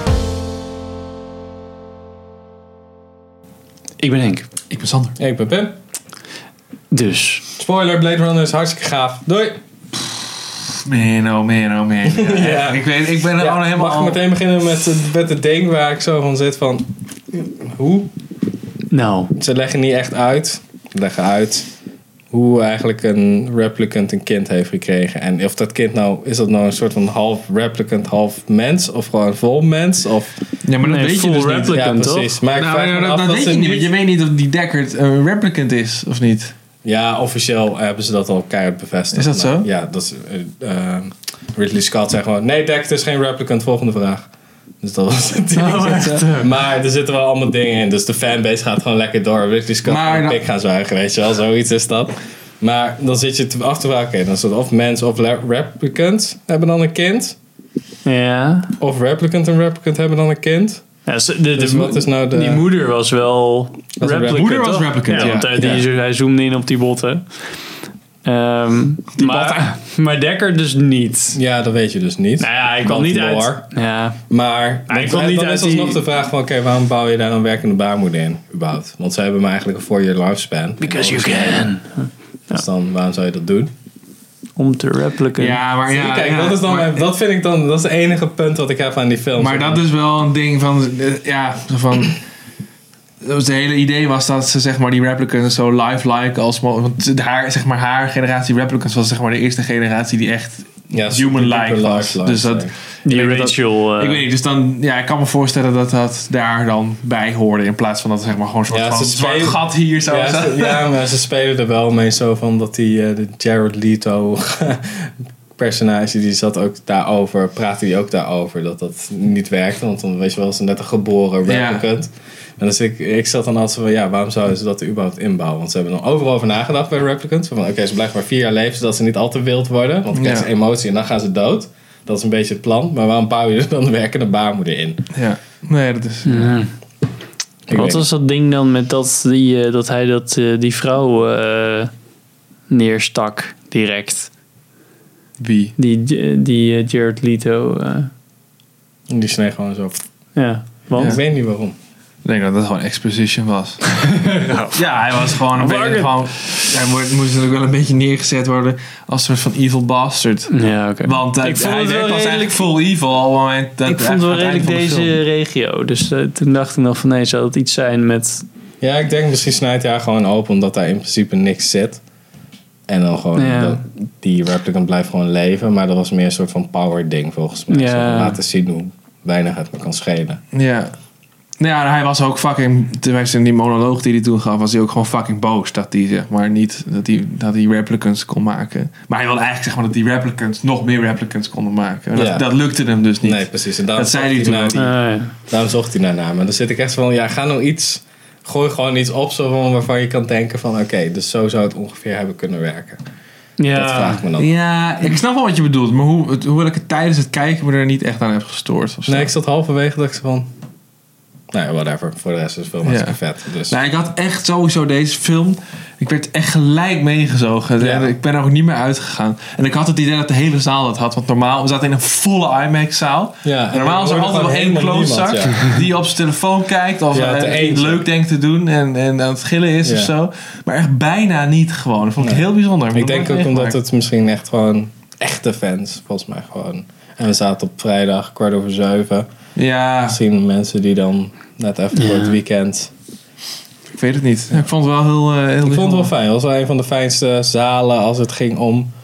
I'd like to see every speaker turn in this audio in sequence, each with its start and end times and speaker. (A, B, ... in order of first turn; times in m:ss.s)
0:04.0-0:04.5 A
0:04.7-0:05.2 B
0:05.2-0:05.8 C
0:06.9-0:07.4 A
0:07.6-0:09.6 C
0:10.8-0:14.2 B
0:12.1-0:12.8 C
0:13.4-0:18.1 C
0:18.9-0:19.3 A
0:19.4-0:21.7 C
0:22.3-0:30.4 C
0:30.6-0:31.8 B
0:30.8-0:32.4 A
0:31.7-0:33.9 C
0:32.6-0:36.5 B
0:36.8-0:44.3 C
0:39.1-0:39.7 B
0:44.8-0:57.4 C
0:45.6-0:46.5 A
0:45.8-0:46.2 B
0:49.8-0:50.4 B
0:58.0-0:58.7 A
0:58.8-1:00.8 C
1:01.1-1:07.2 A
1:01.6-1:02.7 C
1:04.0-1:05.9 C
1:04.3-1:05.6 B
1:08.2-1:11.4 A
1:09.1-1:09.7 B
1:11.4-1:13.7 C
1:12.4-1:14.2 A
1:14.3-1:21.7 C
1:14.9-1:16.0 A
1:20.8-1:22.6 A
1:22.5-1:23.7 C
1:24.6-1:25.6 A
1:25.4-1:27.1 B
1:25.9-1:29.8 C
1:29.4-1:32.2 B
1:33.2-1:50.9 B
1:40.9-1:42.7 C
1:43.0-1:44.2 A
1:48.7-2:15.1 C
2:01.5-2:01.9 B
2:10.1-2:10.5 B
2:15.1-2:16.5 B
2:16.2-2:16.7 A
2:17.7-2:18.1 C
2:17.7-2:21.9 A
2:22.7-2:24.3 A
2:25.4-2:25.8 B
2:25.8-2:28.1 A
2:29.1-2:30.0 C
2:30.4-2:31.2 A
2:31.0-2:31.8 C
2:32.2-2:34.0 B
2:34.1-2:34.8 A
2:34.7-2:45.2 B
2:35.5-2:36.7 A
2:40.5-2:42.7 A
2:43.8-2:48.4 A
2:48.8-2:52.0 C
2:52.9-3:00.4 C
2:53.4-2:53.8 A
2:57.7-2:58.4 A
3:00.5-3:00.9 B
3:01.6-3:14.9 B
3:12.1-3:12.5 C
3:13.2-3:23.0 C
3:14.8-3:15.3 A
3:23.6-3:24.2 A
3:23.7-3:24.5 C
3:24.4-3:29.3 B
3:29.1-3:30.5 C
3:31.5-3:33.8 C
3:32.8-3:53.8 B
3:37.8-3:38.1 C
3:43.4-3:45.6 C
3:47.1-3:48.0 C
3:49.8-3:50.1 C
3:52.2-3:59.3 C
3:59.6-4:00.2 B
4:00.0-4:02.9 C
4:01.9-4:02.4 A
4:03.9-4:06.1 B
4:05.6-4:08.9 C